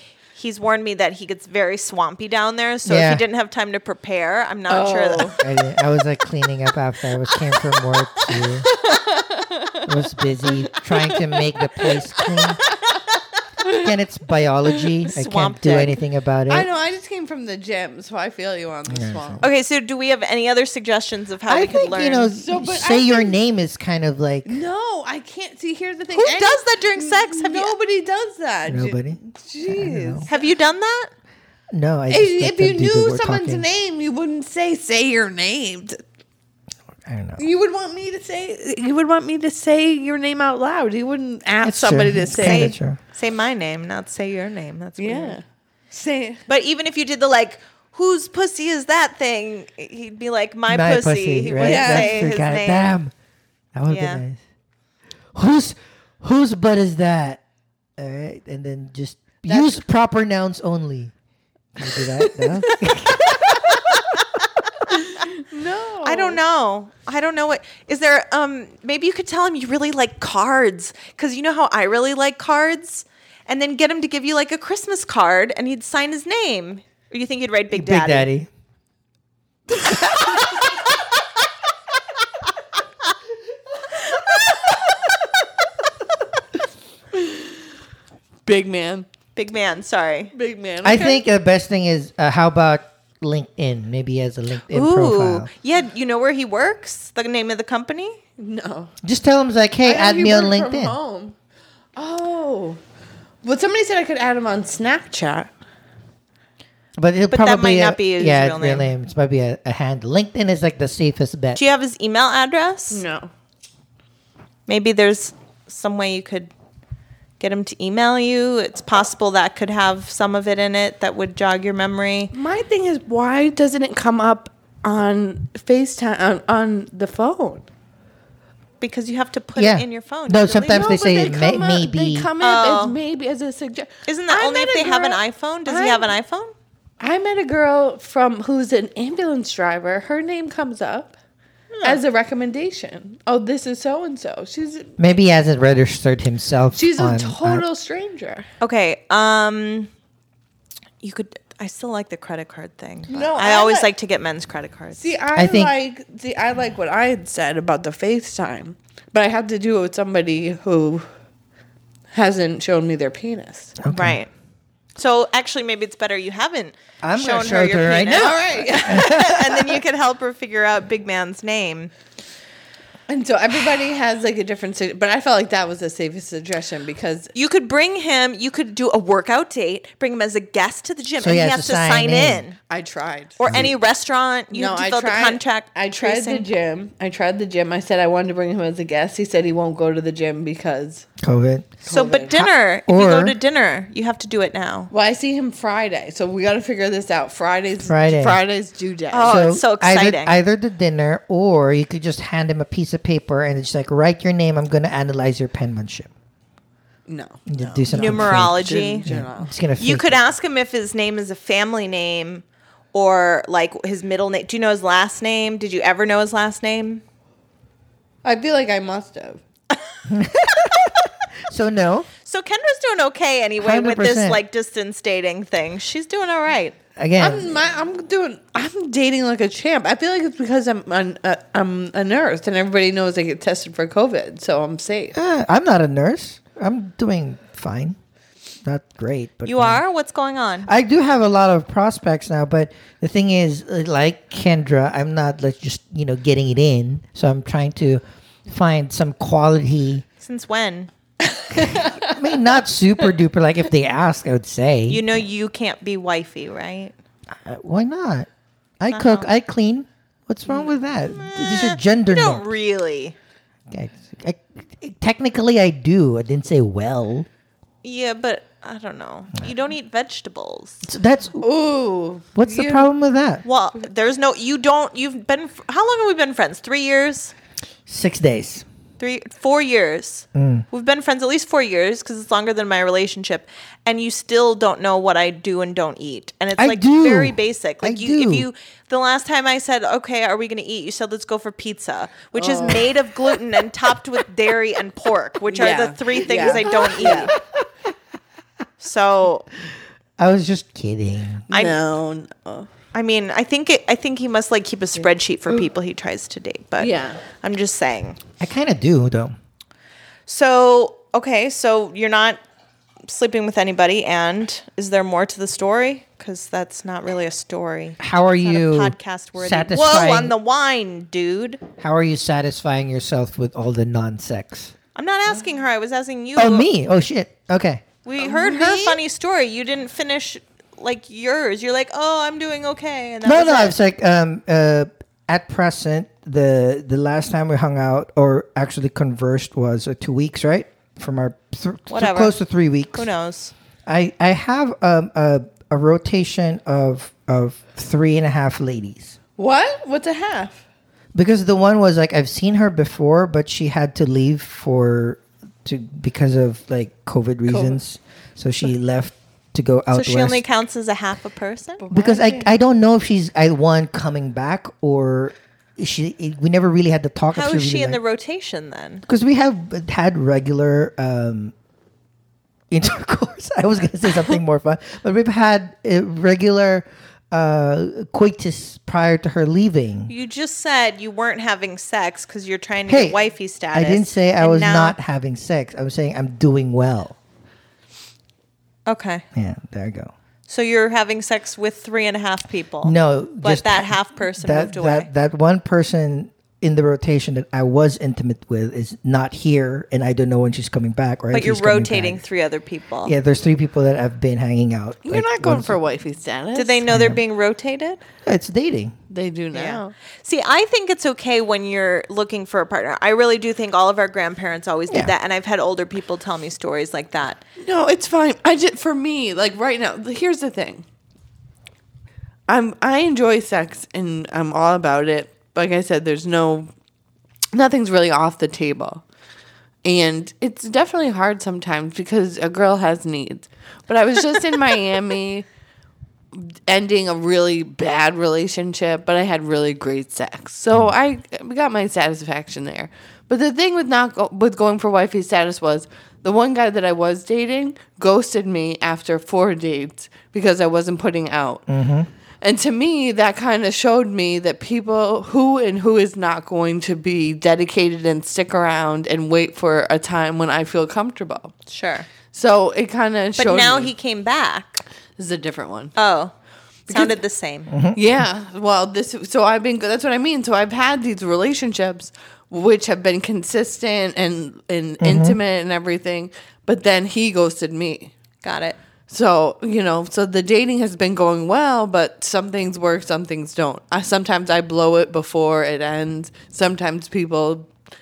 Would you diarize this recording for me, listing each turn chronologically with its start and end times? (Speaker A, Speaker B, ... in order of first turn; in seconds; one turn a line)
Speaker A: 0.3-5.4
Speaker B: 2.8-3.2
Speaker C: 4.7-5.4
Speaker B: 5.4-8.7
Speaker C: 8.3-9.9
Speaker B: 9.8-12.6
Speaker C: 10.7-13.0
Speaker C: 13.6-13.9
Speaker B: 13.7-16.7
Speaker A: 15.1-16.0
Speaker C: 16.5-19.4
Speaker B: 18.9-19.4
Speaker A: 19.4-22.3
Speaker B: 21.5-24.6
Speaker C: 22.2-23.4
Speaker C: 24.4-30.5
Speaker A: 26.1-27.7
Speaker B: 28.7-30.3
Speaker A: 30.3-31.1
Speaker B: 31.7-33.7
Speaker C: 32.1-36.0
Speaker B: 37.0-37.4
Speaker C: 37.4-42.7
Speaker B: 41.6-43.0
Speaker A: 42.4-45.4
Speaker C: 45.0-46.4
Speaker A: 46.5-52.9
Speaker B: 50.7-53.1
Speaker C: 51.6-52.2
Speaker B: 53.7-54.4
Speaker A: 53.9-54.2
Speaker B: 55.3-57.4
Speaker B: 58.0-61.1
Speaker C: 59.5-59.7
Speaker B: 61.8-64.0
Speaker C: 62.0-62.7
Speaker A: 63.3-64.4
Speaker C: 65.0-66.4
Speaker A: 66.0-78.3
Speaker B: 77.7-78.5
Speaker C: 79.8-80.1
Speaker C: 87.1-87.6
Speaker C: 88.5-89.1
Speaker A: 89.3-90.3
Speaker C: 90.3-91.2
Speaker B: 90.8-95.5
Speaker A: 94.7-98.2
Speaker C: 98.4-98.9
Speaker B: 99.0-101.0
Speaker C: 99.8-101.3
Speaker C: 102.0-102.8
Speaker C: 103.4-105.5
Speaker B: 107.0-111.6
Speaker A: 107.3-108.9
Speaker A: 111.5-113.0
Speaker C: 112.9-113.3
Speaker A: 114.7-116.5
Speaker A: 117.4-122.3
Speaker C: 122.3-127.7
Speaker A: 128.8-131.0
Speaker B: 129.6-132.3
Speaker C: 130.6-136.1
Speaker A: 132.4-133.0
Speaker A: 134.1-136.5
Speaker C: 137.0-141.1
Speaker A: 141.7-142.0
Speaker C: 141.8-144.9
Speaker B: 145.0-147.6
Speaker C: 146.7-148.5
Speaker A: 148.6-149.9
Speaker A: 151.0-155.0
Speaker C: 153.1-153.9
Speaker C: 155.0-161.1
Speaker B: 155.3-155.7
Speaker C: 162.1-163.8
Speaker B: 163.8-164.2
Speaker A: 163.8-164.3
Speaker A: 164.9-171.9
Speaker B: 167.0-169.4
Speaker C: 168.1-169.7
Speaker C: 173.1-177.3
Speaker A: 177.3-182.6
Speaker B: 181.2-182.4
Speaker C: 182.7-183.7
Speaker A: 183.4-186.5
Speaker B: 183.5-183.7
Speaker C: 184.5-191.1
Speaker B: 191.2-191.8
Speaker C: 191.8-192.5
Speaker A: 191.8-194.9
Speaker B: 192.4-193.3
Speaker C: 194.9-199.3
Speaker B: 197.9-198.4
Speaker A: 199.1-200.3
Speaker B: 199.2-206.1
Speaker C: 207.1-209.5
Speaker B: 207.5-210.2
Speaker A: 207.9-209.1
Speaker A: 209.8-217.0
Speaker C: 218.2-219.4
Speaker B: 220.1-222.1
Speaker A: 222.2-226.8
Speaker B: 223.6-224.4
Speaker B: 227.0-227.6
Speaker C: 227.2-235.1
Speaker B: 235.1-237.9
Speaker B: 238.6-239.8
Speaker A: 239.4-240.7
Speaker B: 240.7-250.0
Speaker A: 250.2-250.9
Speaker C: 251.2-252.2
Speaker B: 251.5-255.0
Speaker A: 254.9-256.9
Speaker B: 257.4-258.3
Speaker B: 258.8-262.4
Speaker A: 258.9-259.3
Speaker A: 260.5-263.1
Speaker B: 263.7-267.3
Speaker A: 267.8-270.9
Speaker B: 270.8-271.5
Speaker C: 271.4-272.9
Speaker B: 272.4-273.4
Speaker A: 273.4-277.3
Speaker B: 277.9-278.6
Speaker A: 279.0-297.3
Speaker B: 280.3-280.6
Speaker B: 286.6-288.5
Speaker C: 292.3-292.9
Speaker C: 295.5-297.3
Speaker B: 296.7-297.4
Speaker A: 298.8-299.5
Speaker B: 300.2-301.5
Speaker A: 301.5-301.8
Speaker C: 301.5-302.7
Speaker A: 302.9-308.2
Speaker C: 306.8-307.2
Speaker B: 308.4-309.3
Speaker A: 310.3-312.4
Speaker A: 313.1-321.6
Speaker B: 318.0-320.3
Speaker B: 321.8-324.7
Speaker A: 324.9-326.7
Speaker B: 326.4-327.8
Speaker A: 328.0-333.8
Speaker C: 328.2-328.9
Speaker B: 328.7-328.9
Speaker B: 333.2-343.1
Speaker A: 341.9-342.3
Speaker A: 342.9-343.5
Speaker B: 343.9-349.2
Speaker C: 349.4-350.6
Speaker B: 351.1-360.4
Speaker C: 357.5-357.8
Speaker A: 359.9-361.8
Speaker C: 361.8-362.5
Speaker B: 361.9-368.0
Speaker A: 367.3-369.0
Speaker B: 369.1-371.5
Speaker B: 372.7-380.1
Speaker A: 380.1-385.0
Speaker B: 382.9-383.2
Speaker B: 383.7-387.1
Speaker A: 388.9-389.2
Speaker B: 389.3-390.1
Speaker A: 390.5-395.1
Speaker B: 392.8-402.2
Speaker A: 401.3-403.1
Speaker B: 403.0-405.8
Speaker C: 405.0-406.8
Speaker A: 406.5-408.0
Speaker B: 406.9-407.2
Speaker B: 408.2-408.9
Speaker C: 409.1-409.9
Speaker A: 409.5-417.4
Speaker C: 417.6-420.8
Speaker C: 422.5-426.7
Speaker C: 427.5-429.0
Speaker C: 429.8-435.4
Speaker C: 436.3-451.6
Speaker B: 451.7-452.1
Speaker C: 452.4-461.5
Speaker A: 461.7-462.1
Speaker C: 462.3-463.9
Speaker A: 463.4-464.8
Speaker C: 465.2-465.9
Speaker A: 465.9-466.3
Speaker C: 466.9-467.2
Speaker A: 466.9-467.7
Speaker B: 467.7-468.0
Speaker C: 467.9-478.1
Speaker B: 475.0-475.4
Speaker A: 478.4-478.8
Speaker C: 479.1-487.7